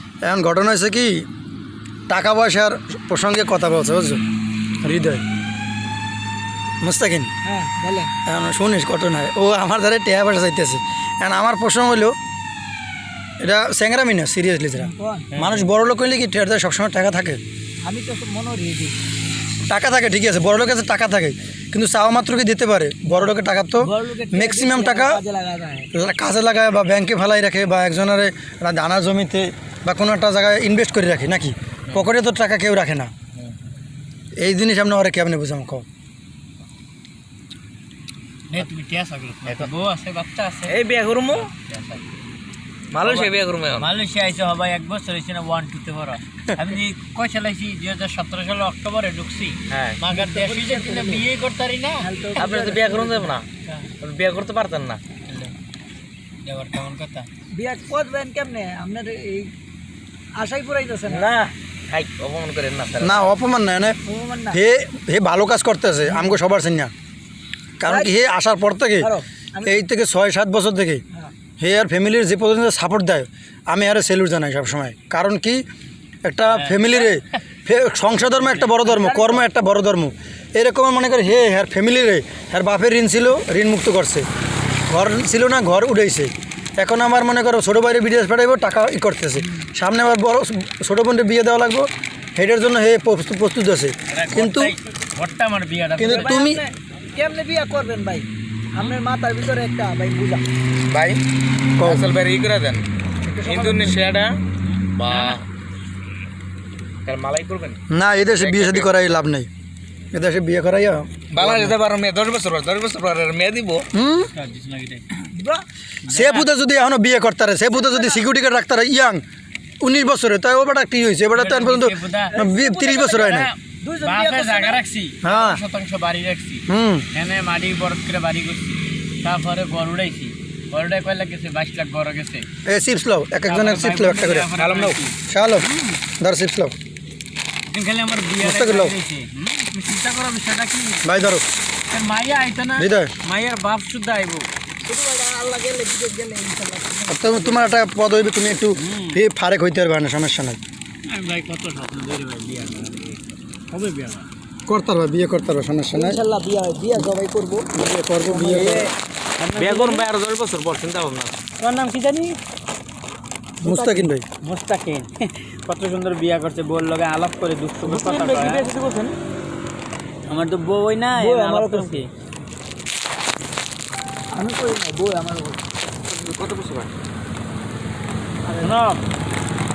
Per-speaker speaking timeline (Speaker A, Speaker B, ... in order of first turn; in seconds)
Speaker A: 0.2-1.2, 2.1-4.2, 4.8-5.2, 6.8-7.3, 8.3-12.2, 13.4-17.4, 19.7-25.2, 25.9-33.1, 34.4-35.9, 63.0-64.0, 64.5-66.9, 67.8-69.1, 69.7-71.0, 71.6-75.6, 76.2-84.3, 84.9-94.8, 96.0-96.6, 101.8-102.1, 107.9-109.5, 110.1-111.8, 113.9-114.3, 116.1-119.2, 119.8-123.5, 125.2-125.6, 126.7-127.1, 132.7-134.5, 135.3-136.8, 138.4-139.0, 141.0-141.4, 142.8-143.1, 147.1-150.6, 154.7-156.2, 157.7-158.9, 163.6-164.3
Speaker B: 7.4-8.1, 14.8-15.3, 17.9-18.9, 23.8-25.9, 50.1-51.3, 52.0-53.3, 57.5-59.5, 60.4-61.3, 64.0-64.6, 66.1-66.4, 67.8-68.2, 69.0-69.8, 78.8-79.5, 96.1-100.4, 103.2-104.0, 115.3-115.7, 117.8-118.2, 122.3-123.0, 123.8-124.8, 144.8-147.8, 155.9-158.9, 171.1-172.0, 174.3-175.6, 178.4-178.8
Speaker C: 15.3-15.7, 38.5-40.8, 41.5-42.0, 43.0-52.1, 55.3-55.5, 56.5-57.3, 76.5-77.2, 78.4-78.7, 94.1-96.4, 104.7-105.4, 114.3-115.0, 116.1-116.5, 121.3-132.5, 133.5-135.2, 137.7-141.3, 141.9-144.5, 148.8-149.2, 151.1-154.3, 159.4-160.1, 161.6-162.4, 163.7-168.7, 170.3-172.1, 178.6-179.0
Speaker D: 40.7-41.5, 42.9-43.9, 49.7-50.0, 52.4-53.5, 54.0-55.0, 61.1-63.3, 101.8-102.8, 103.4-104.4, 104.9-105.4, 107.0-109.1, 111.3-113.9, 134.6-135.0, 159.5-161.4, 167.8-169.2, 176.1-176.9